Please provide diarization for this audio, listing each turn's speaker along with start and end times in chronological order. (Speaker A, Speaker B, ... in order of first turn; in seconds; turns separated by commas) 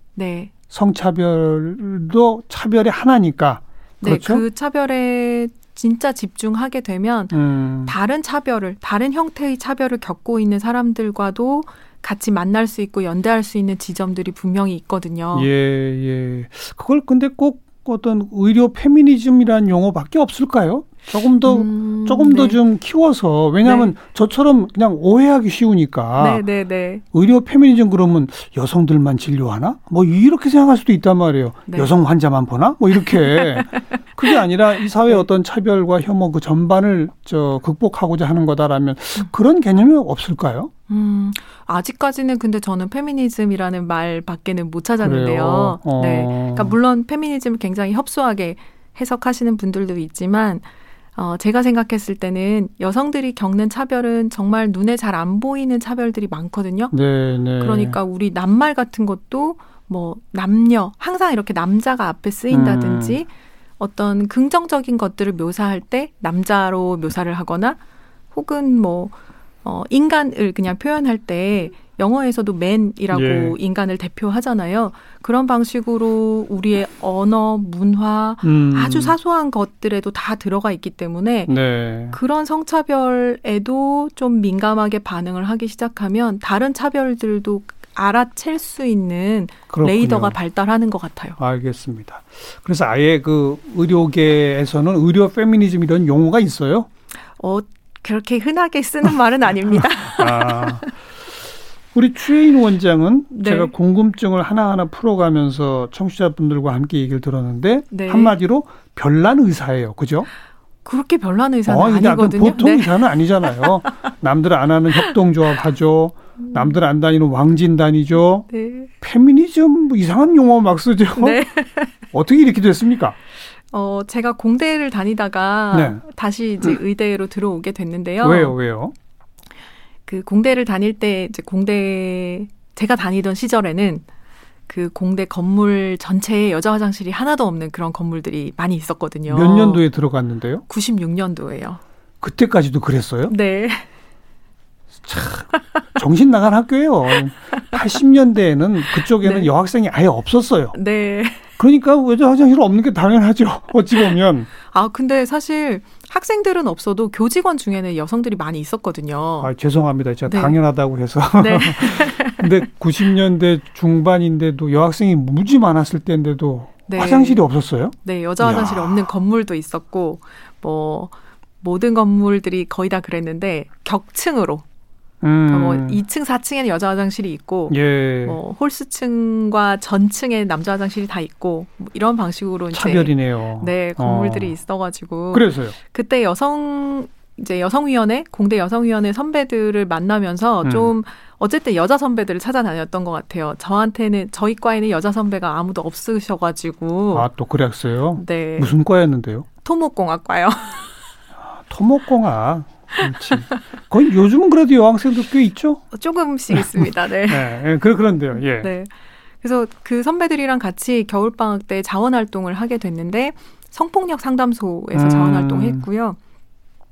Speaker A: 0.2-0.5, Speaker B: 0.7-4.4, Speaker A: 4.0-15.5, Speaker B: 7.3-8.0, Speaker B: 15.3-26.4, Speaker A: 21.4-22.6, Speaker A: 23.6-23.9, Speaker A: 26.2-27.0, Speaker B: 27.1-40.7, Speaker A: 31.7-31.9, Speaker A: 33.0-34.4, Speaker A: 40.9-50.6, Speaker B: 45.0-46.8, Speaker A: 51.2-56.9, Speaker B: 56.9-58.0, Speaker A: 57.6-67.8, Speaker B: 62.5-63.2, Speaker A: 68.3-81.5, Speaker B: 73.1-73.6, Speaker B: 78.4-79.2, Speaker B: 81.5-82.2, Speaker A: 82.1-91.4, Speaker B: 89.7-90.4, Speaker B: 91.4-96.9, Speaker A: 97.4-100.9, Speaker B: 99.7-100.9, Speaker B: 101.9-110.3, Speaker A: 103.3-103.7, Speaker A: 107.9-108.3, Speaker A: 110.8-114.0, Speaker B: 111.7-118.5, Speaker A: 116.4-116.8, Speaker A: 118.5-118.9, Speaker B: 119.0-121.4, Speaker A: 121.2-121.9, Speaker B: 122.1-123.2, Speaker A: 123.7-128.6, Speaker B: 125.7-126.0, Speaker B: 128.2-128.9, Speaker A: 130.1-134.1, Speaker A: 134.7-139.8, Speaker B: 139.3-140.7, Speaker A: 140.7-141.8, Speaker B: 142.2-143.3, Speaker A: 143.3-143.8, Speaker B: 145.1-150.7, Speaker A: 149.2-149.5, Speaker A: 150.7-151.5, Speaker B: 151.6-154.5, Speaker A: 154.7-159.5, Speaker B: 159.4-169.1, Speaker A: 160.3-160.6, Speaker A: 161.4-162.6, Speaker A: 166.9-167.4, Speaker A: 168.0-174.6, Speaker B: 175.2-176.0, Speaker A: 175.5-197.3, Speaker B: 177.7-178.4, Speaker B: 182.7-184.6, Speaker B: 185.3-185.8, Speaker B: 190.6-190.9, Speaker B: 197.1-199.5, Speaker A: 198.2-198.8, Speaker A: 199.6-201.0, Speaker B: 201.5-205.8, Speaker A: 202.9-203.6, Speaker A: 205.9-207.6, Speaker B: 206.5-208.7, Speaker A: 208.6-208.9, Speaker A: 209.4-216.2, Speaker B: 214.9-215.8